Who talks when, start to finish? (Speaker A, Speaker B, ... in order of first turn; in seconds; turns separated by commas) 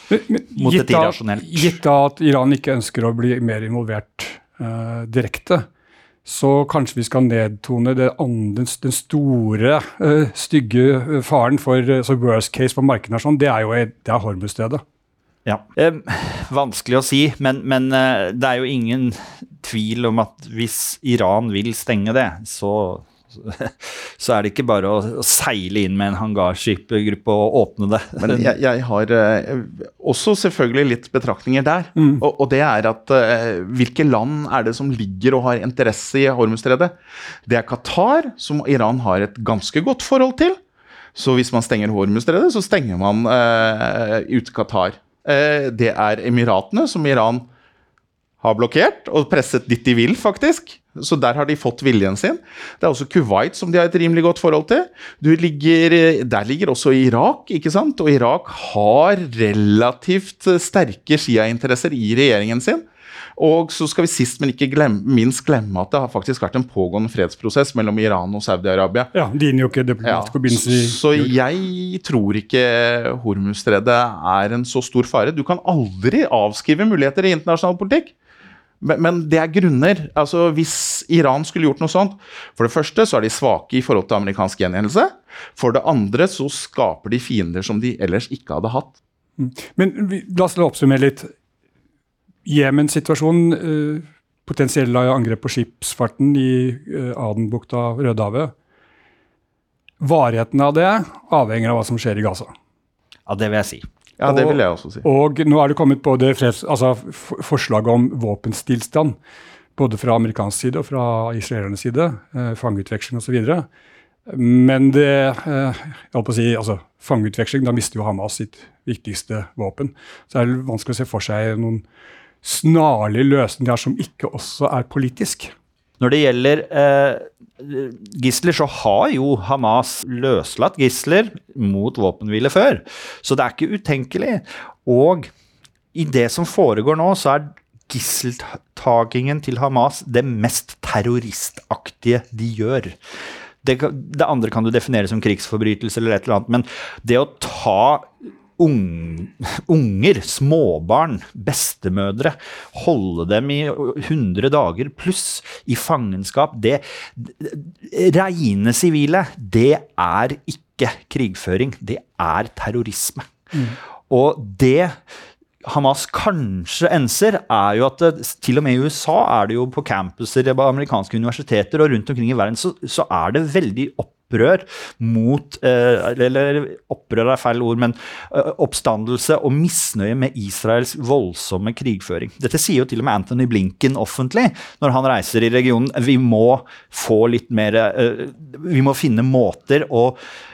Speaker A: 0.1-5.7, Speaker B: 0.6-1.8, Speaker A: 6.2-14.8, Speaker B: 15.4-28.5, Speaker C: 28.2-36.9, Speaker C: 37.5-40.6, Speaker C: 41.1-47.5, Speaker C: 48.4-69.1, Speaker A: 69.1-71.3, Speaker C: 70.0-78.1, Speaker C: 78.8-89.0, Speaker A: 89.4-91.3, Speaker A: 92.4-98.5, Speaker A: 100.0-102.5, Speaker B: 103.3-103.8, Speaker C: 104.2-105.0, Speaker A: 104.2-109.2, Speaker A: 109.8-113.7, Speaker A: 114.3-121.8, Speaker A: 122.4-125.5, Speaker B: 126.0-135.3, Speaker B: 135.9-142.9, Speaker B: 143.6-163.3, Speaker B: 164.1-165.0, Speaker B: 165.6-190.2